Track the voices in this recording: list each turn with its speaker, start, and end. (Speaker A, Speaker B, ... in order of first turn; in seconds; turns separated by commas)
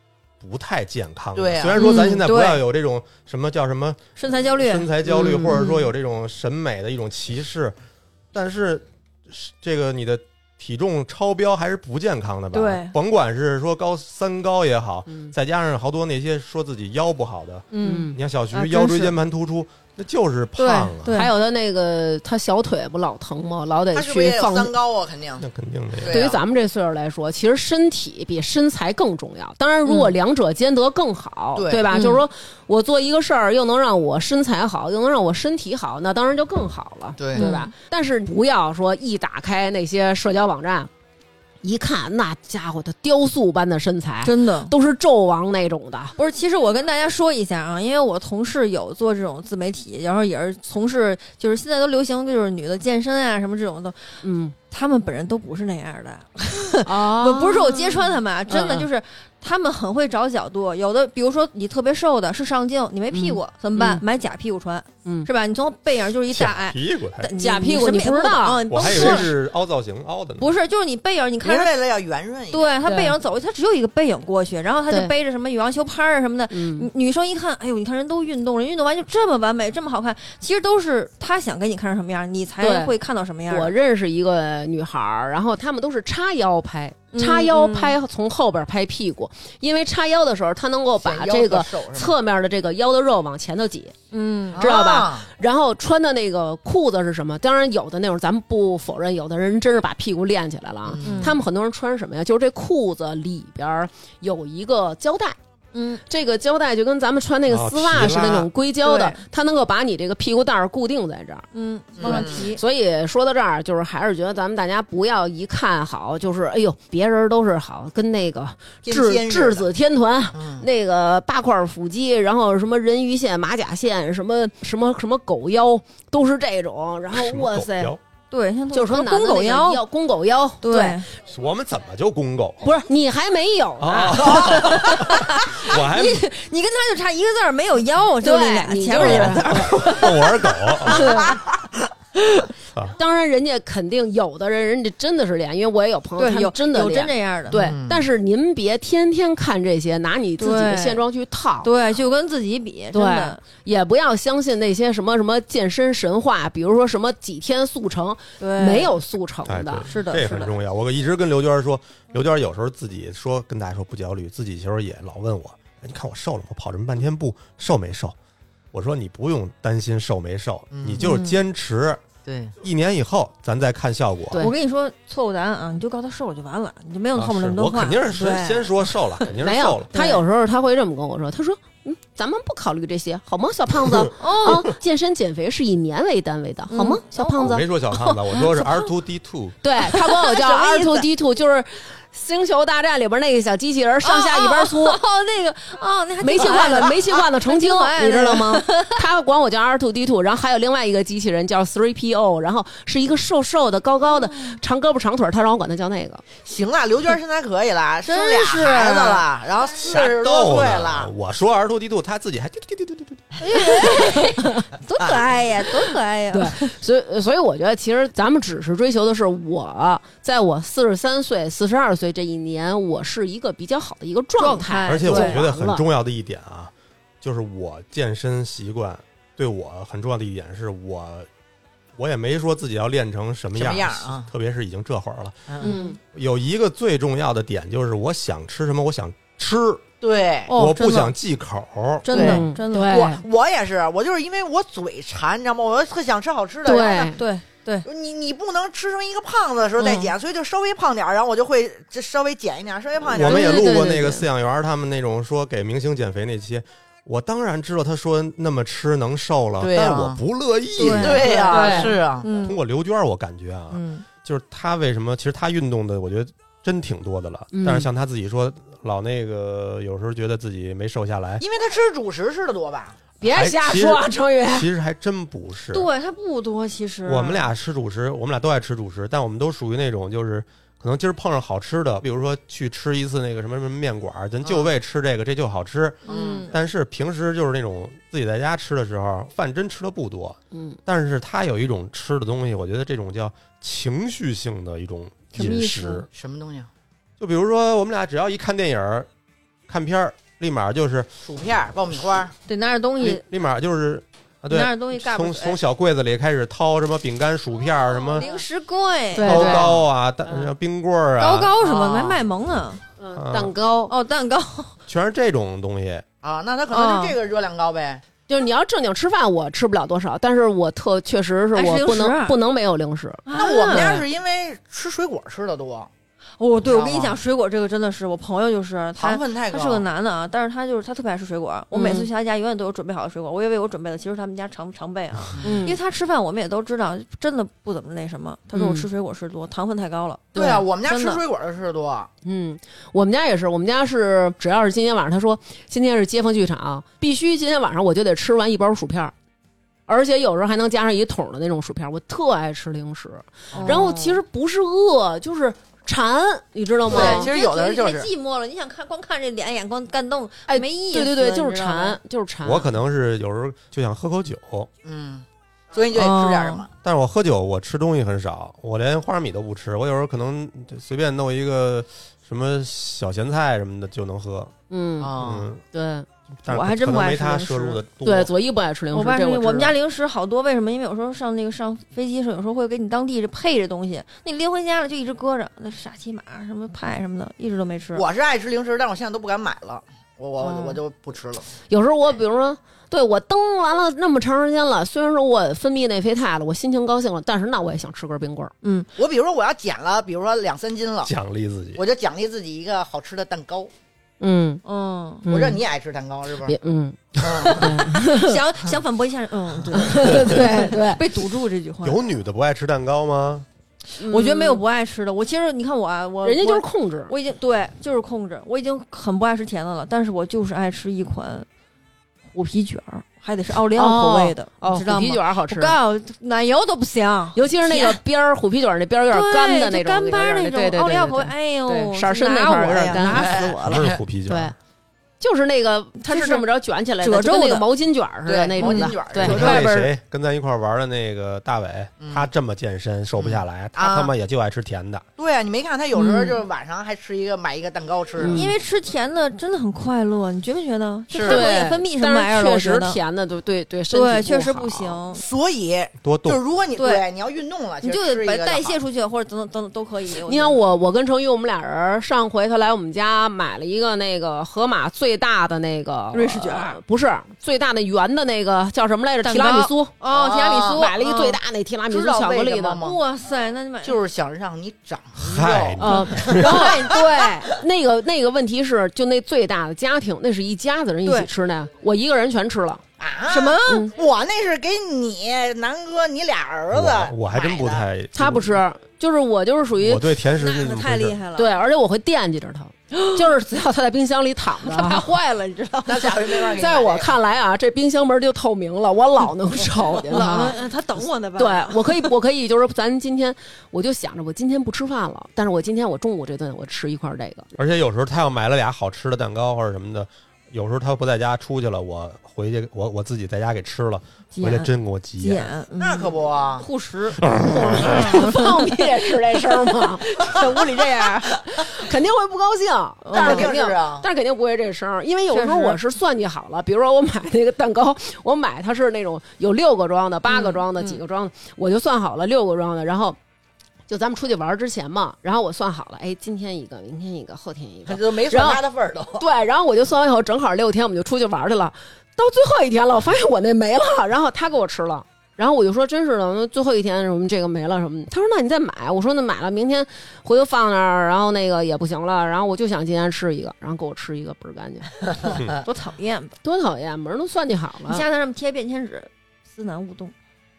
Speaker A: 0.4-7.8, Speaker B: 1.4-1.8, Speaker C: 1.8-2.6, Speaker C: 4.2-5.9, Speaker A: 8.3-21.2, Speaker C: 12.5-12.9, Speaker C: 17.7-19.1, Speaker D: 17.8-18.2, Speaker C: 20.6-21.3, Speaker D: 21.1-24.7, Speaker B: 23.9-25.4, Speaker A: 25.4-26.2, Speaker B: 26.0-26.4, Speaker D: 26.1-40.9, Speaker C: 29.8-30.1, Speaker B: 31.6-31.9, Speaker C: 31.9-32.2, Speaker B: 37.2-37.5, Speaker C: 37.3-37.7, Speaker D: 41.6-46.1, Speaker C: 44.2-44.7, Speaker C: 46.2-69.3, Speaker D: 54.2-54.5, Speaker D: 56.8-58.9, Speaker D: 63.1-64.0, Speaker A: 66.3-67.3, Speaker D: 67.4-69.3, Speaker A: 68.7-70.5, Speaker C: 70.4-71.7, Speaker B: 71.4-72.7, Speaker C: 72.5-83.7, Speaker D: 72.8-73.1, Speaker D: 76.5-76.9, Speaker D: 82.6-82.9, Speaker D: 83.5-94.0, Speaker C: 87.1-88.0, Speaker B: 91.0-92.1, Speaker C: 94.1-94.7, Speaker B: 94.5-95.3, Speaker D: 94.5-105.4, Speaker B: 100.9-101.3, Speaker C: 101.0-101.4, Speaker C: 105.7-106.0, Speaker D: 106.0-111.5, Speaker A: 107.5-108.5, Speaker C: 108.8-109.2, Speaker C: 111.5-112.6, Speaker B: 112.0-112.5, Speaker D: 112.0-128.0, Speaker B: 118.8-119.7, Speaker B: 120.3-120.7, Speaker A: 127.1-128.0, Speaker C: 128.3-129.8, Speaker D: 128.7-131.0, Speaker C: 130.6-131.1, Speaker A: 131.3-132.7, Speaker D: 132.6-134.8, Speaker A: 133.8-136.3, Speaker C: 134.2-141.3, Speaker D: 138.2-139.8, Speaker A: 138.9-141.3, Speaker D: 140.9-141.4, Speaker D: 142.9-151.7, Speaker C: 146.2-147.6, Speaker B: 147.5-148.1, Speaker C: 150.4-151.0, Speaker C: 151.6-153.4, Speaker D: 152.9-159.9, Speaker C: 158.4-158.9, Speaker A: 159.4-168.1, Speaker C: 159.9-160.5, Speaker A: 168.7-172.0, Speaker B: 170.7-171.0, Speaker C: 171.0-171.4, Speaker B: 172.2-172.5, Speaker A: 172.6-174.4, Speaker C: 174.4-179.3, Speaker A: 177.1-179.9, Speaker D: 179.4-187.7, Speaker C: 179.9-180.2, Speaker C: 184.2-184.7, Speaker C: 186.7-188.8, Speaker A: 187.4-189.6, Speaker D: 189.6-195.0, Speaker C: 189.8-191.1, Speaker C: 194.0-199.0, Speaker D: 196.2-206.2, Speaker C: 204.2-204.6, Speaker B: 206.4-211.1, Speaker C: 208.1-209.3, Speaker A: 209.8-213.3, Speaker C: 213.4-216.8, Speaker D: 214.0-214.5, Speaker D: 216.3-225.8, Speaker C: 224.4-225.4, Speaker A: 224.9-231.3, Speaker A: 231.9-239.8, Speaker B: 233.5-234.3, Speaker D: 235.6-236.0, Speaker C: 235.6-235.9, Speaker B: 240.0-240.5, Speaker C: 240.5-241.1, Speaker A: 240.5-242.1, Speaker C: 242.0-243.1, Speaker B: 242.1-247.2, Speaker D: 242.1-243.2, Speaker D: 246.6-247.2, Speaker C: 247.1-247.9, Speaker B: 247.8-253.7, Speaker C: 249.8-250.1, Speaker A: 253.1-261.8, Speaker D: 253.2-254.3, Speaker B: 259.6-260.2, Speaker B: 260.8-262.3, Speaker C: 260.8-262.6, Speaker D: 261.5-261.9, Speaker A: 262.4-271.4, Speaker C: 263.7-264.1, Speaker D: 267.5-267.9, Speaker B: 271.4-273.0, Speaker D: 273.2-274.7, Speaker A: 273.2-275.9, Speaker C: 275.7-277.5, Speaker A: 277.1-296.1, Speaker B: 284.4-284.7, Speaker B: 286.1-286.5, Speaker C: 286.1-286.5, Speaker D: 290.5-290.8, Speaker C: 295.3-296.1, Speaker B: 296.1-296.7, Speaker A: 297.2-299.1, Speaker A: 299.7-301.1, Speaker B: 301.2-302.3, Speaker C: 302.5-303.2, Speaker A: 303.0-308.2, Speaker C: 304.5-305.6, Speaker C: 308.1-309.7, Speaker D: 309.1-309.8, Speaker A: 309.2-311.5, Speaker C: 311.2-312.8, Speaker B: 311.6-312.2, Speaker D: 313.0-313.9, Speaker A: 313.1-313.5, Speaker C: 313.9-314.8, Speaker A: 314.9-316.0, Speaker B: 316.2-318.0, Speaker C: 316.7-317.1, Speaker D: 318.3-324.0, Speaker C: 321.5-322.4, Speaker C: 323.2-324.0, Speaker B: 323.3-325.9, Speaker C: 326.4-341.2, Speaker B: 326.6-327.2, Speaker B: 329.0-329.8, Speaker D: 331.7-332.1, Speaker D: 335.4-335.8, Speaker D: 338.5-338.9, Speaker D: 340.3-340.6, Speaker B: 340.3-342.1, Speaker D: 342.2-349.1, Speaker D: 349.9-357.3, Speaker B: 353.5-354.1, Speaker C: 353.5-354.0, Speaker B: 356.9-358.1, Speaker C: 356.9-362.0, Speaker D: 360.5-362.7, Speaker A: 362.4-364.7, Speaker B: 364.8-366.7, Speaker C: 365.9-366.6, Speaker A: 366.8-374.5, Speaker D: 374.7-375.2, Speaker B: 375.0-375.5, Speaker A: 375.2-375.6, Speaker D: 375.7-376.1, Speaker A: 376.4-378.3, Speaker C: 376.5-377.8, Speaker D: 378.0-379.8, Speaker C: 378.9-388.0, Speaker B: 387.9-391.5, Speaker D: 390.4-390.7, Speaker D: 391.7-398.5, Speaker C: 398.6-398.9, Speaker B: 399.0-401.1, Speaker A: 401.0-401.8, Speaker B: 401.8-403.7, Speaker D: 404.2-404.6, Speaker C: 404.6-405.3, Speaker D: 405.2-405.6, Speaker B: 405.3-406.6, Speaker D: 406.4-408.4, Speaker B: 407.2-407.7, Speaker C: 407.5-412.0, Speaker D: 409.7-411.0, Speaker A: 411.8-413.5, Speaker C: 413.9-421.5, Speaker D: 414.0-414.6, Speaker D: 416.2-417.1, Speaker C: 422.3-428.0, Speaker D: 423.8-425.8, Speaker D: 427.3-433.5, Speaker C: 429.1-433.9, Speaker B: 432.9-434.0, Speaker A: 433.3-434.5, Speaker D: 434.2-434.5, Speaker D: 435.2-439.9, Speaker C: 436.0-436.4, Speaker C: 437.0-437.7, Speaker B: 438.2-439.5, Speaker C: 438.6-439.7, Speaker A: 439.2-445.0, Speaker B: 442.0-442.3, Speaker B: 443.2-444.1, Speaker B: 445.2-448.5, Speaker C: 445.9-446.4, Speaker D: 448.2-448.5, Speaker C: 448.3-453.0, Speaker B: 451.1-451.5, Speaker D: 451.2-455.0, Speaker C: 453.9-455.2, Speaker B: 455.1-458.8, Speaker A: 456.0-456.4, Speaker C: 456.8-457.0, Speaker C: 457.8-460.6, Speaker D: 460.2-469.9, Speaker C: 466.1-466.8, Speaker C: 469.2-471.4, Speaker B: 470.1-470.9, Speaker D: 470.5-472.9, Speaker B: 471.9-473.0, Speaker C: 472.8-474.0, Speaker B: 473.8-477.0, Speaker A: 475.2-476.7, Speaker D: 475.8-482.8, Speaker C: 476.1-477.5, Speaker B: 483.0-487.8, Speaker C: 483.3-483.9, Speaker D: 483.7-483.9, Speaker A: 486.7-488.6, Speaker D: 488.1-490.1, Speaker A: 489.8-491.2, Speaker C: 490.3-491.5, Speaker D: 491.3-495.1, Speaker C: 492.9-493.2, Speaker C: 494.6-496.5, Speaker B: 495.9-497.1, Speaker D: 496.5-500.6, Speaker C: 500.1-502.1, Speaker D: 501.4-507.5, Speaker A: 507.6-515.5, Speaker C: 514.3-521.4, Speaker B: 515.8-516.7, Speaker D: 517.5-520.1, Speaker D: 521.4-533.2, Speaker C: 523.0-523.5, Speaker B: 523.1-524.1, Speaker C: 525.3-525.8, Speaker C: 530.3-531.0, Speaker D: 533.9-538.6, Speaker B: 537.9-539.2, Speaker D: 539.2-555.0, Speaker C: 555.6-556.3, Speaker D: 556.4-558.0, Speaker C: 557.9-560.1